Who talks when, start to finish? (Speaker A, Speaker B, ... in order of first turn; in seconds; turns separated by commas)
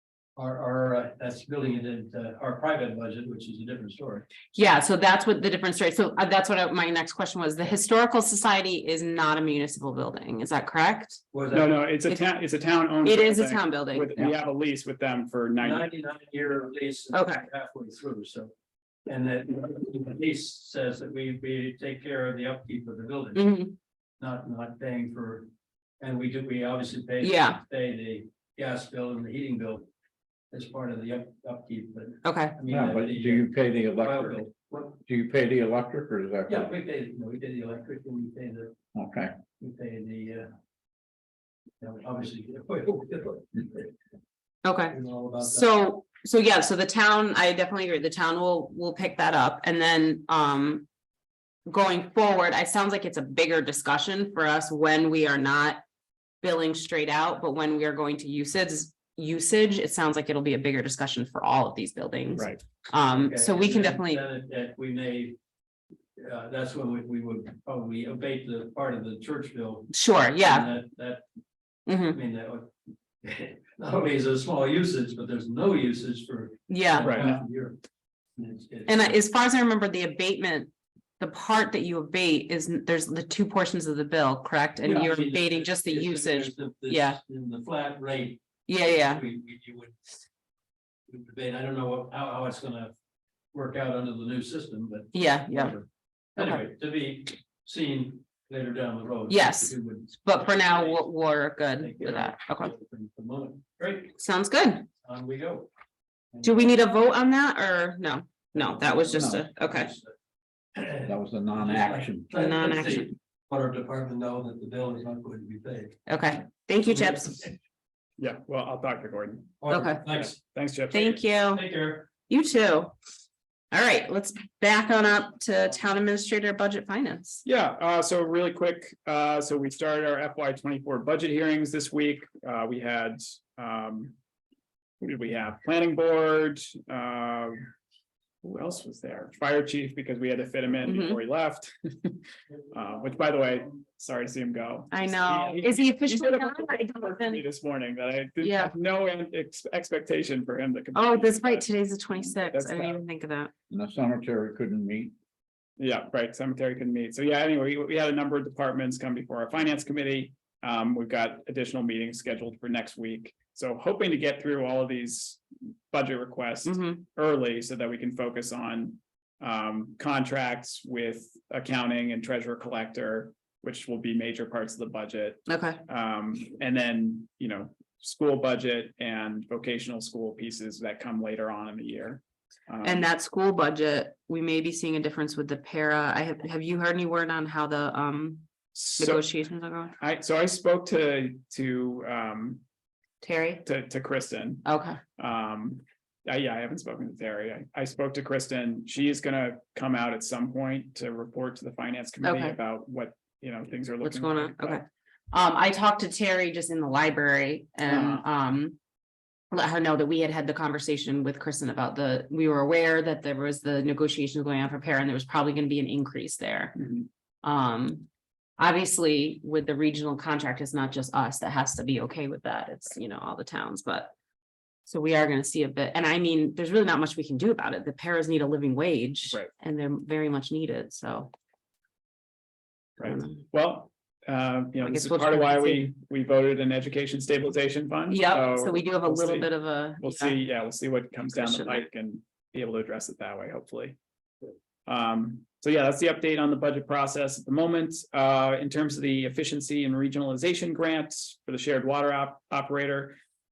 Speaker A: 0.3-4.3, Speaker B: 4.5-11.2, Speaker A: 11.3-11.8, Speaker C: 11.5-15.9, Speaker B: 13.0-14.3, Speaker A: 15.6-18.5, Speaker B: 17.1-17.4, Speaker A: 19.1-23.4, Speaker B: 23.3-23.8, Speaker A: 24.2-29.9, Speaker B: 27.2-27.6, Speaker A: 30.5-34.9, Speaker B: 32.2-32.5, Speaker D: 32.7-36.7, Speaker A: 36.5-38.7, Speaker D: 38.9-39.3, Speaker A: 39.6-40.5, Speaker A: 41.8-43.9, Speaker B: 44.6-50.9, Speaker A: 44.9-45.7, Speaker B: 51.7-55.8, Speaker B: 56.4-64.2, Speaker C: 62.4-62.6, Speaker A: 63.1-65.3, Speaker A: 66.2-71.2, Speaker B: 69.9-70.7, Speaker B: 71.9-72.2, Speaker A: 72.1-77.8, Speaker B: 76.7-77.3, Speaker C: 77.0-77.4, Speaker A: 78.4-79.2, Speaker B: 78.9-87.2, Speaker A: 84.8-90.0, Speaker B: 88.7-89.2, Speaker A: 91.1-92.9, Speaker A: 93.5-101.1, Speaker B: 95.1-95.7, Speaker B: 99.3-102.7, Speaker A: 101.8-104.2, Speaker B: 104.2-104.9, Speaker A: 105.0-105.7, Speaker A: 106.3-106.8, Speaker B: 106.4-109.9, Speaker A: 108.5-110.1, Speaker D: 109.1-109.5, Speaker A: 110.7-116.0, Speaker D: 111.0-112.4, Speaker B: 112.3-113.1, Speaker B: 116.1-117.5, Speaker C: 118.2-121.2, Speaker A: 119.6-120.4, Speaker B: 119.7-120.1, Speaker B: 120.9-122.9, Speaker A: 121.5-122.1, Speaker B: 123.7-127.4, Speaker C: 127.4-134.1, Speaker C: 135.0-137.7, Speaker C: 138.4-153.0, Speaker B: 140.8-141.2, Speaker B: 144.9-147.4, Speaker B: 148.4-148.7, Speaker B: 150.9-153.5, Speaker D: 153.7-155.1, Speaker C: 155.8-183.1, Speaker B: 166.6-167.0, Speaker B: 175.5-175.8, Speaker B: 182.8-189.9, Speaker C: 188.7-189.3, Speaker C: 190.0-192.6, Speaker B: 193.2-193.6, Speaker C: 193.6-194.7, Speaker B: 194.6-195.0, Speaker C: 195.2-204.8, Speaker B: 202.2-202.6, Speaker B: 204.0-208.8, Speaker C: 207.8-208.2, Speaker B: 209.5-216.8, Speaker C: 216.8-217.1, Speaker B: 217.4-218.1, Speaker B: 218.6-224.1, Speaker B: 224.9-231.3, Speaker C: 233.0-244.0, Speaker B: 233.0-233.4, Speaker B: 234.8-235.9, Speaker B: 238.1-240.4, Speaker B: 241.3-241.9, Speaker C: 244.8-253.2